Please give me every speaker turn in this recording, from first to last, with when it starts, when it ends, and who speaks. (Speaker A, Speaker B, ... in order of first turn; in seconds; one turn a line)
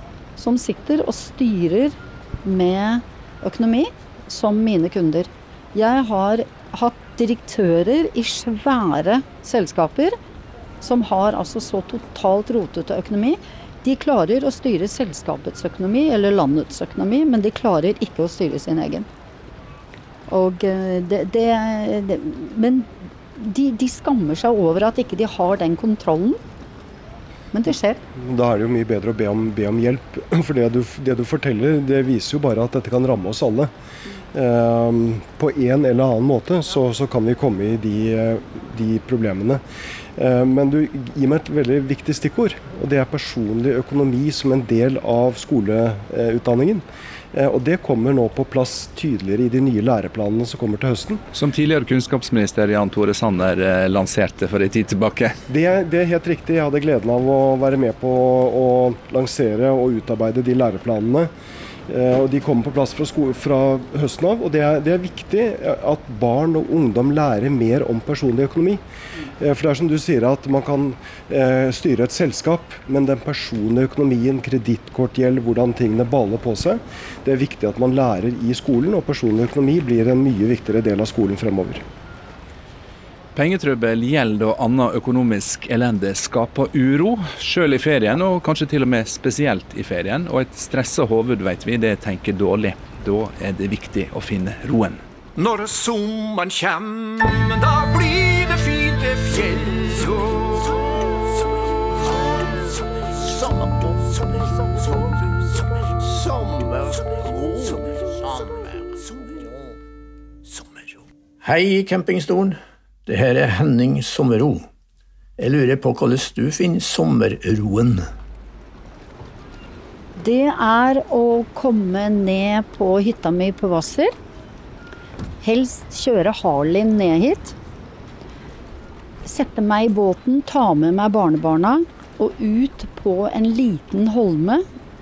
Speaker A: 0.4-10.2
Speaker A: 10.8-19.1
Speaker A: 20.3-26.4
Speaker A: 27.5-28.0
Speaker B: 28.1-33.7
Speaker B: 34.3-39.6
Speaker B: 40.1-51.2
Speaker C: 51.3-55.4
Speaker B: 55.5-61.3
Speaker B: 61.9-81.8
Speaker C: 83.3-95.0
Speaker D: 95.4-109.5
Speaker D: 110.5-110.9
Speaker E: 111.4-114.7
Speaker E: 115.4-118.0
Speaker A: 120.2-124.1
Speaker A: 125.4-127.5
Speaker A: 129.2-134.6